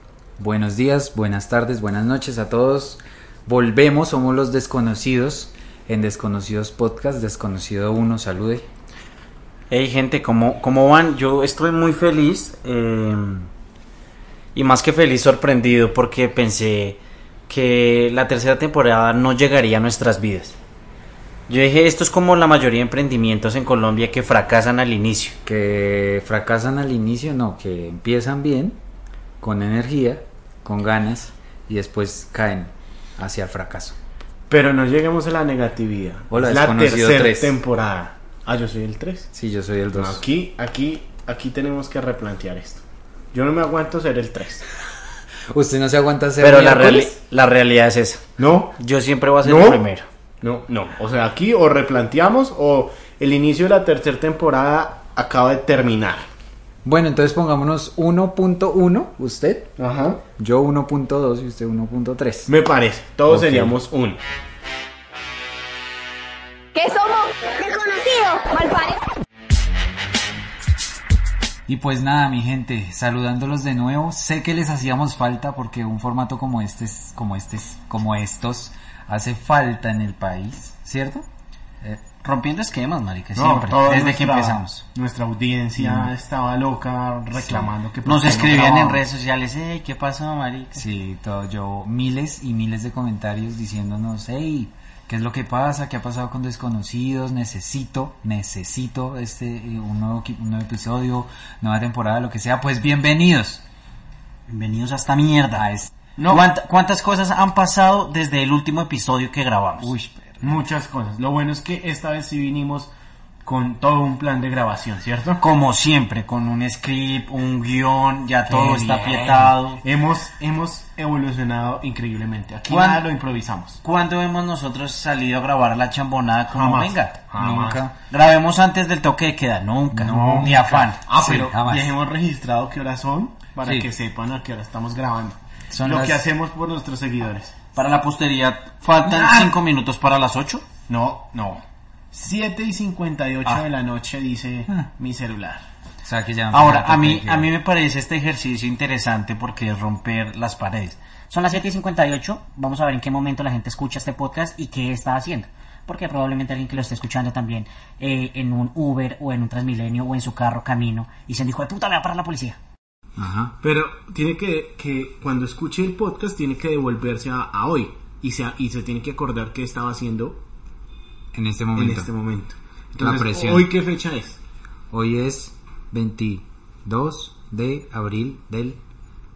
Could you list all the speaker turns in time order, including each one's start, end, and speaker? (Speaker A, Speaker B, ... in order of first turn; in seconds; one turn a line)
Speaker A: 0.4-8.7
Speaker B: 9.7-13.5
Speaker B: 14.6-20.6
Speaker B: 21.5-25.4
Speaker A: 25.4-28.8
Speaker A: 29.4-34.0
Speaker C: 34.5-39.3
Speaker A: 36.3-37.6
Speaker A: 39.3-40.2
Speaker C: 39.9-44.6
Speaker A: 45.5-47.1
Speaker B: 46.4-48.2
Speaker C: 48.4-48.8
Speaker B: 48.8-50.0
Speaker C: 49.4-49.8
Speaker C: 50.4-56.3
Speaker A: 56.9-59.7
Speaker C: 59.8-60.2
Speaker A: 60.4-62.5
Speaker C: 62.5-64.2
Speaker A: 63.3-63.8
Speaker D: 66.7-69.0
Speaker A: 71.7-81.3
Speaker B: 82.2-84.8
Speaker C: 83.3-89.0
Speaker A: 85.8-86.1
Speaker B: 88.0-90.8
Speaker A: 90.8-103.6
Speaker B: 104.5-105.7
Speaker A: 105.6-105.9
Speaker C: 106.2-106.5
Speaker B: 106.3-109.9
Speaker A: 109.8-110.4
Speaker C: 110.4-112.9
Speaker C: 113.5-115.5
Speaker B: 115.4-119.8
Speaker C: 118.5-123.8
Speaker B: 122.7-123.0
Speaker B: 123.8-127.3
Speaker C: 126.5-127.8
Speaker A: 127.4-128.0
Speaker B: 128.1-131.0
Speaker C: 130.0-137.6
Speaker A: 130.0-131.9
Speaker A: 135.7-136.2
Speaker B: 137.8-140.7
Speaker C: 139.1-139.6
Speaker C: 140.9-145.7
Speaker A: 146.0-147.5
Speaker B: 146.5-151.0
Speaker E: 151.3-162.6
Speaker A: 163.2-163.6
Speaker C: 163.6-170.4
Speaker A: 171.3-172.1
Speaker C: 171.8-174.4
Speaker A: 173.0-173.7
Speaker A: 174.9-178.8